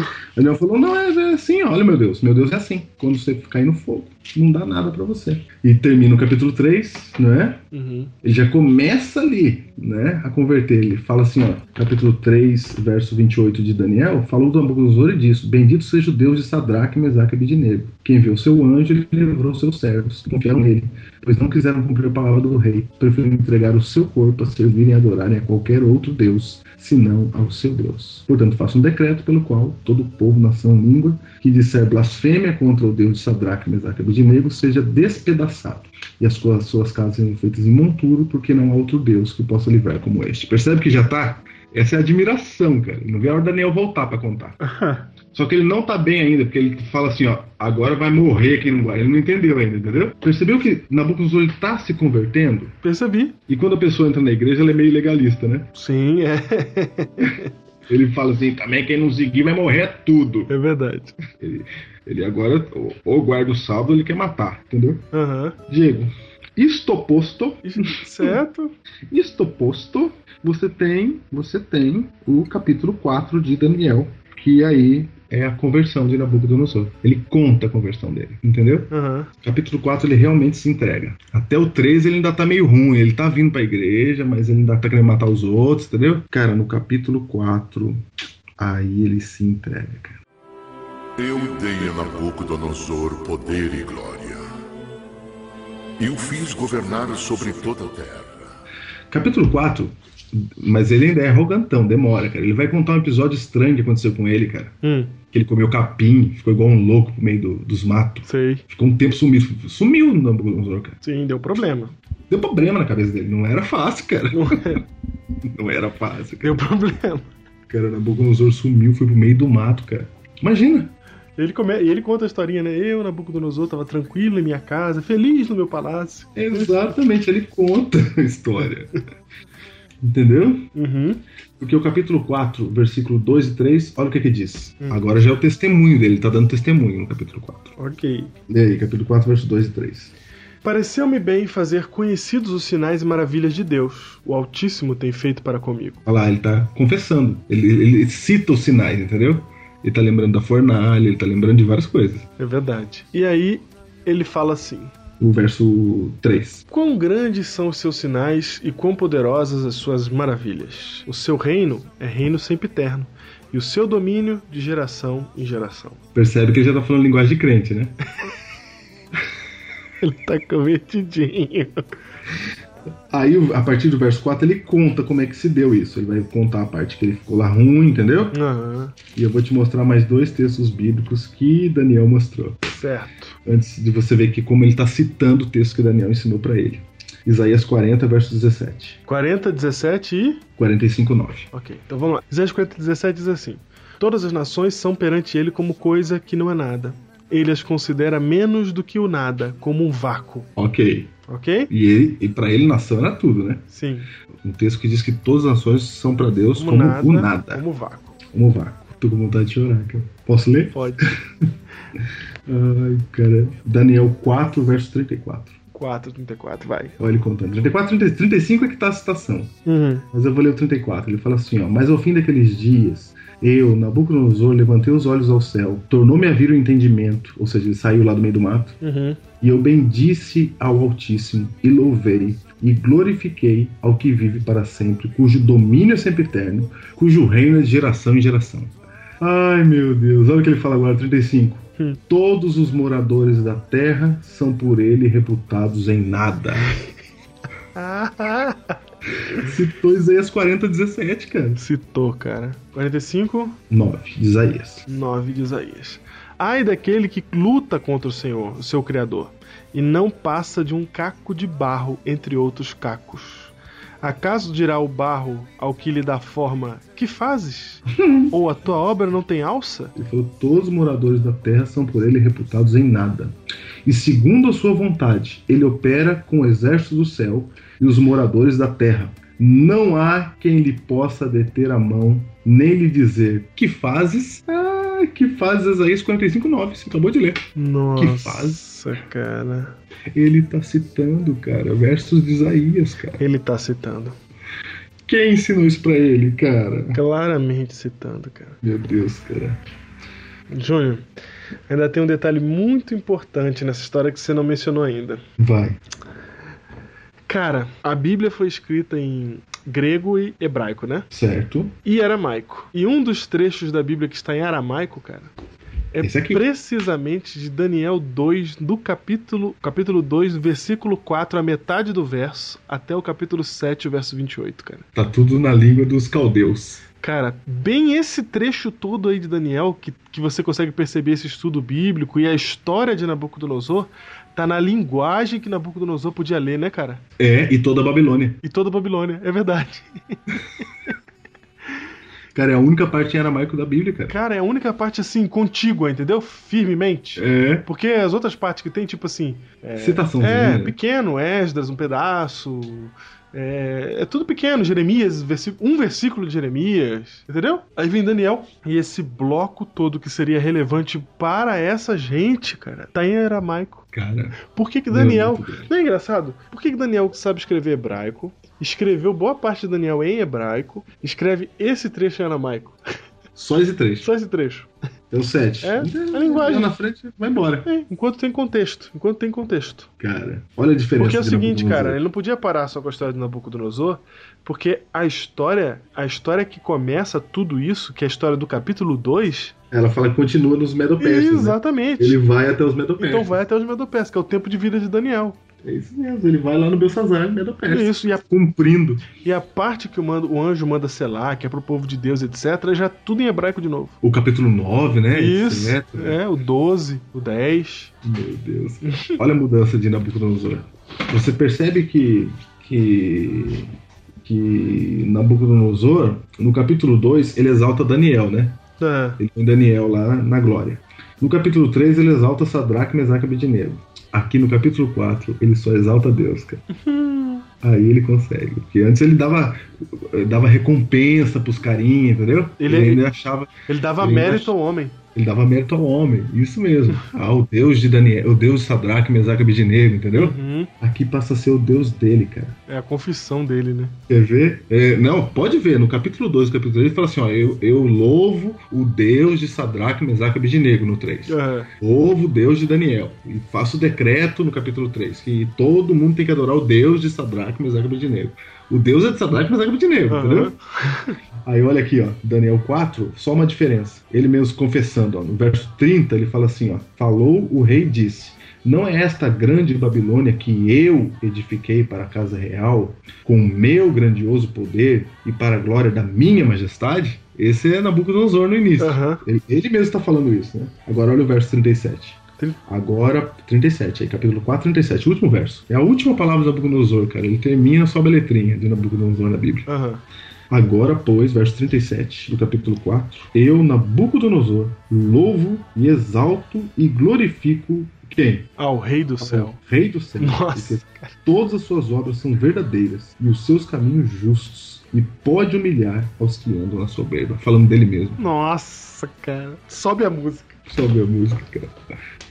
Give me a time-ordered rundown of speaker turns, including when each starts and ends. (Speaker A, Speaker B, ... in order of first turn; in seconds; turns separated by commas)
Speaker A: 0.4-7.6, Speaker B: 7.7-8.1, Speaker A: 8.2-44.6, Speaker B: 44.6-45.1, Speaker A: 45.3-52.8, Speaker B: 52.8-53.4, Speaker A: 53.5-55.7, Speaker B: 55.8-57.5, Speaker A: 57.9-60.5, Speaker B: 60.5-61.2, Speaker A: 61.4-65.1, Speaker B: 65.1-65.6, Speaker A: 65.7-67.6, Speaker B: 67.6-68.7, Speaker A: 69.1-88.1, Speaker B: 78.9-79.3, Speaker A: 88.6-90.2, Speaker C: 91.2-94.4, Speaker C: 96.0-98.4, Speaker A: 99.1-104.8, Speaker B: 104.8-105.2, Speaker A: 105.3-111.0, Speaker B: 108.2-108.6, Speaker B: 111.0-112.0, Speaker A: 112.3-114.8, Speaker B: 114.3-114.8, Speaker A: 115.4-116.6, Speaker B: 116.4-117.3, Speaker A: 117.7-120.9, Speaker B: 121.4-126.8, Speaker A: 126.3-129.0, Speaker A: 130.0-130.7, Speaker B: 130.8-131.2, Speaker A: 131.6-137.8, Speaker B: 137.8-138.3, Speaker A: 138.5-140.1, Speaker B: 140.6-146.0, Speaker A: 146.1-152.3, Speaker B: 152.4-154.9, Speaker A: 155.2-156.6, Speaker B: 156.7-166.0, Speaker A: 166.2-168.0, Speaker B: 170.0-171.9, Speaker A: 173.1-178.4, Speaker B: 178.3-178.9, Speaker A: 179.2-182.6, Speaker B: 182.7-183.4, Speaker A: 183.4-189.0, Speaker B: 189.1-190.4, Speaker A: 190.6-191.5, Speaker B: 191.5-200.5, Speaker A: 200.6-201.1, Speaker B: 201.3-201.7, Speaker A: 201.7-203.7, Speaker B: 203.7-204.1, Speaker A: 204.4-207.6, Speaker B: 206.6-208.2, Speaker A: 208.3-211.1, Speaker B: 210.7-211.1, Speaker A: 212.5-215.6, Speaker B: 215.7-217.0, Speaker A: 217.0-219.6, Speaker B: 219.7-220.1, Speaker A: 220.1-228.8, Speaker B: 228.8-229.2, Speaker A: 229.4-246.8, Speaker B: 247.8-248.8, Speaker A: 249.3-251.6, Speaker B: 251.6-253.6, Speaker A: 253.7-254.9, Speaker B: 254.9-269.9, Speaker A: 268.0-268.3, Speaker A: 270.0-287.4, Speaker B: 287.6-289.8, Speaker A: 288.0-288.6, Speaker A: 290.1-293.2, Speaker B: 293.2-294.2, Speaker A: 295.1-297.0, Speaker B: 296.9-298.6, Speaker A: 298.6-299.6, Speaker B: 300.5-301.1, Speaker B: 301.7-305.2, Speaker A: 305.4-305.8, Speaker B: 307.3-311.1, Speaker A: 311.1-311.8, Speaker B: 311.8-315.3, Speaker B: 315.9-324.9, Speaker A: 316.0-316.4, Speaker A: 324.9-326.9, Speaker B: 327.0-337.0, Speaker A: 337.2-338.4, Speaker B: 338.4-340.4, Speaker A: 342.3-344.1, Speaker B: 344.1-363.9, Speaker A: 347.2-347.7, Speaker A: 349.8-350.8, Speaker A: 363.9-364.4, Speaker B: 364.5-372.8, Speaker A: 364.9-365.7, Speaker A: 373.4-374.1, Speaker B: 374.0-374.7, Speaker A: 375.1-377.7, Speaker B: 375.6-376.7, Speaker B: 377.7-379.9, Speaker A: 380.0-382.0, Speaker B: 381.0-389.6, Speaker A: 389.7-393.4, Speaker B: 391.0-392.2, Speaker B: 393.0-395.4, Speaker A: 395.6-399.1, Speaker B: 397.7-398.2, Speaker B: 399.2-404.0, Speaker A: 404.0-406.2, Speaker B: 405.1-407.9, Speaker A: 408.0-418.6, Speaker B: 408.9-409.2, Speaker B: 418.8-419.2, Speaker A: 419.2-426.6, Speaker B: 426.7-427.5, Speaker A: 427.6-434.6, Speaker B: 432.6-433.1, Speaker B: 433.7-435.0, Speaker A: 435.1-442.6, Speaker B: 440.1-440.7, Speaker B: 442.7-444.0, Speaker A: 444.1-460.6, Speaker B: 451.3-451.7, Speaker B: 460.1-461.2, Speaker A: 461.4-489.7, Speaker B: 478.8-479.2, Speaker B: 489.7-490.0, Speaker A: 490.5-498.5, Speaker B: 498.6-499.6, Speaker A: 499.2-508.2, Speaker B: 500.2-501.1, Speaker B: 508.2-510.6, Speaker A: 510.7-511.8